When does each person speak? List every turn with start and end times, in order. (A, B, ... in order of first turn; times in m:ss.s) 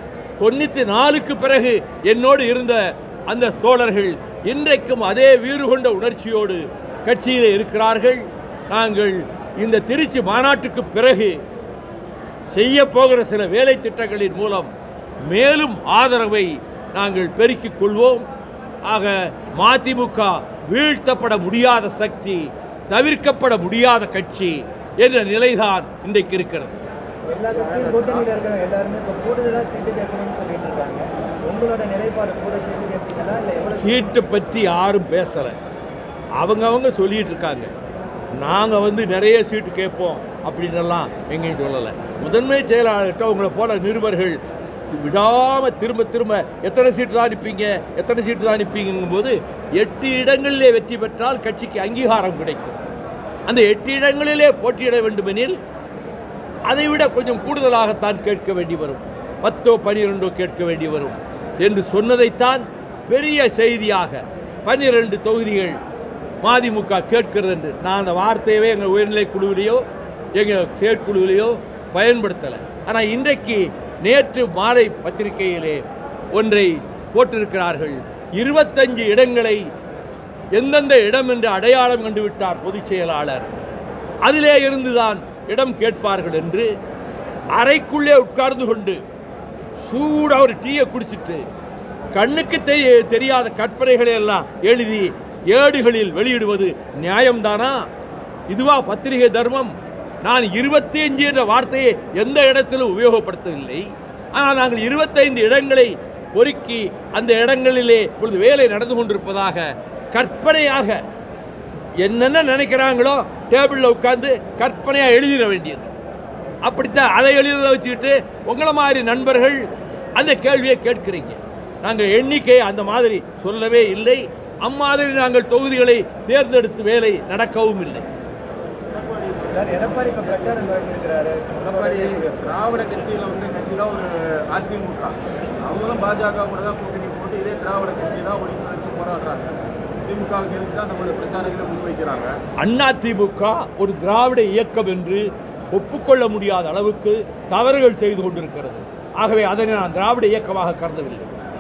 0:00.4-0:11.4 A
0:12.5-0:14.7 A
0:15.3-0:18.2 A
0:18.8-0:26.7 A
0:27.3-0:34.1 B
0:27.6-0:28.2 C
0:33.8-0:35.6 A
0:36.4-0:37.7 A
0:38.3-0:44.4 A
0:44.9-0:52.8 A
0:53.5-0:55.6 A
0:56.6-1:05.8 A
1:06.4-1:09.8 A
1:10.4-1:19.6 A
1:20.5-1:23.5 A
1:24.2-1:26.7 A
1:27.5-1:29.0 A
1:29.8-1:31.4 A
1:32.1-1:37.8 A
1:38.5-1:51.0 A
1:52.0-1:55.9 A
1:56.6-1:59.6 A
2:00.2-2:08.0 A
2:08.9-2:10.8 C
2:09.5-2:12.4 B
2:11.6-2:22.4 C
2:22.6-2:31.3 A